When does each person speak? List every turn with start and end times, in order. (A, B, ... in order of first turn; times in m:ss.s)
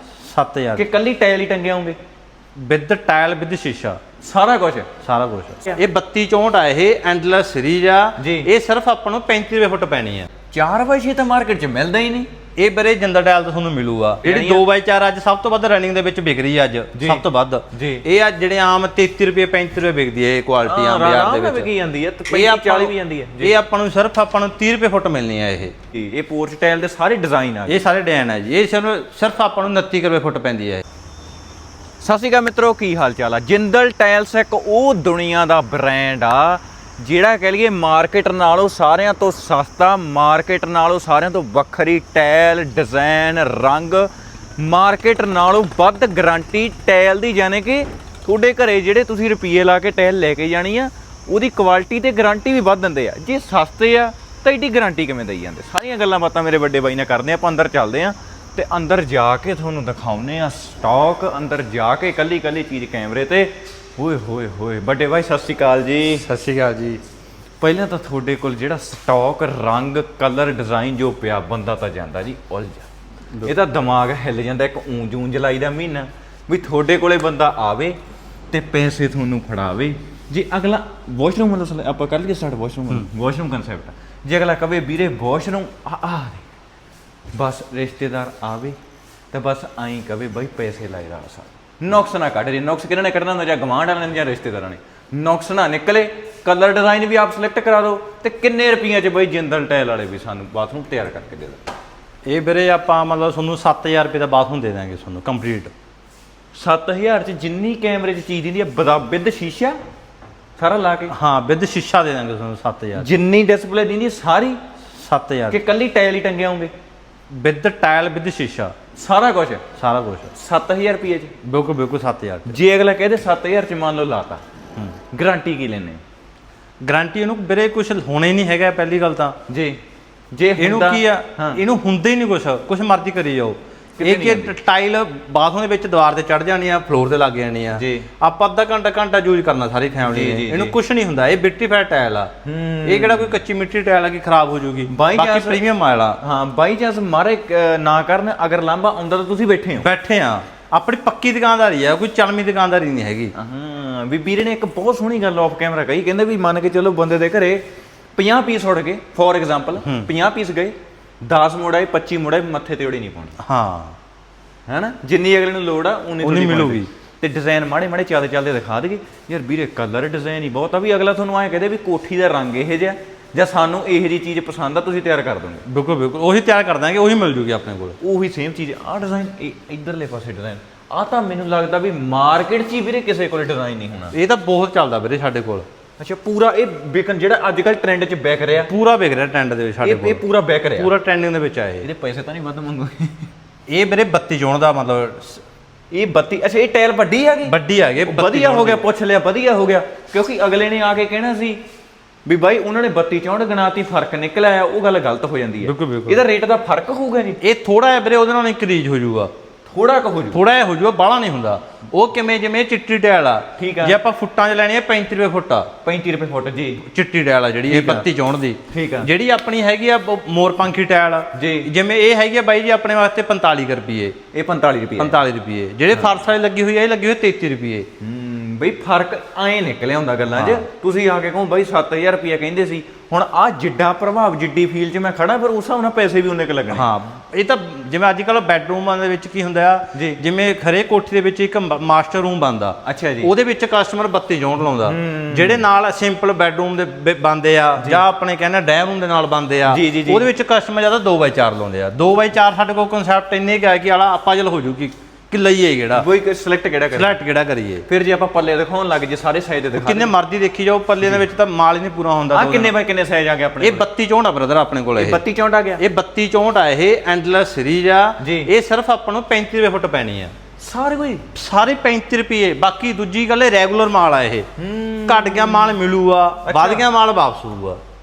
0:00.2-0:00.8 A
0:00.8-0:02.0 B
0:02.6-0:04.0 A
0:04.2-0:04.9 B
0:05.0-0:10.3 A
0:08.2-0:08.5 B
0:10.5-0:12.3 B
0:12.6-0:21.7 A
0:14.2-0:14.7 B
0:16.9-0:18.0 B
0:20.6-0:23.6 B
0:22.3-0:25.8 A
0:25.9-0:27.8 B
0:27.7-0:30.8 A
0:32.0-1:06.3 B
1:06.2-1:07.0 A
1:07.6-1:12.9 B
1:13.4-1:18.0 B
1:18.5-1:26.4 B
1:27.3-1:28.8 B
1:29.3-1:41.6 B
1:42.3-1:45.7 A
1:46.5-1:49.8 B
1:50.6-1:51.1 B
1:51.1-1:53.1 A
1:53.0-1:54.6 B
1:55.0-1:55.6 A
1:55.5-1:56.7 B
1:57.3-1:58.7 A
1:59.0-1:59.6 B
1:59.8-2:00.3 A
2:00.4-2:01.3 B
2:01.4-2:02.6 A
2:02.5-2:04.4 B
2:05.1-2:06.0 B
2:06.8-2:09.4 A
2:09.5-2:09.8 B
2:10.3-2:11.6 B
2:10.6-2:22.3 A
2:14.0-2:14.6 B
2:17.8-2:18.1 B
2:20.0-2:20.8 B
2:22.4-2:23.4 B
2:22.8-2:26.2 A
2:24.9-2:25.6 B
2:26.2-2:29.9 B
2:29.8-2:33.3 A
2:33.4-2:43.4 B
2:43.4-2:44.0 A
2:44.7-2:55.6 B
2:46.2-2:46.9 A
2:55.7-2:58.0 A
2:58.0-3:04.2 B
3:04.1-3:05.7 A
3:06.0-3:08.7 B
3:08.7-3:10.2 A
3:09.8-3:10.9 B
3:10.8-3:11.9 A
3:11.8-3:13.3 B
3:13.7-3:15.4 A
3:15.9-3:21.6 B
3:17.4-3:18.8 A
3:22.2-3:27.4 B
3:25.6-3:26.2 A
3:27.4-3:29.3 A
3:29.7-3:30.4 B
3:30.3-3:35.7 A
3:33.6-3:34.0 B
3:35.8-3:36.8 B
3:36.8-3:44.2 A
3:37.7-3:38.1 B
3:38.7-3:39.1 B
3:41.3-3:41.7 B
3:44.3-3:45.2 B
3:45.0-3:47.9 A
3:48.0-3:56.9 B
3:50.4-3:50.6 A
3:56.7-4:16.1 A
3:59.9-4:00.2 B
4:02.8-4:03.3 B
4:04.8-4:05.6 B
4:09.7-4:10.3 B
4:15.9-4:17.2 B
4:16.9-4:17.8 A
4:17.9-4:20.1 B
4:19.8-4:22.7 A
4:22.3-4:23.9 B
4:23.6-4:25.2 A
4:25.0-4:25.8 B
4:25.8-4:30.3 A
4:28.2-4:28.5 B
4:30.6-4:31.3 B
4:31.3-4:34.5 A
4:34.6-4:35.8 B
4:35.1-4:37.8 A
4:36.4-4:36.9 B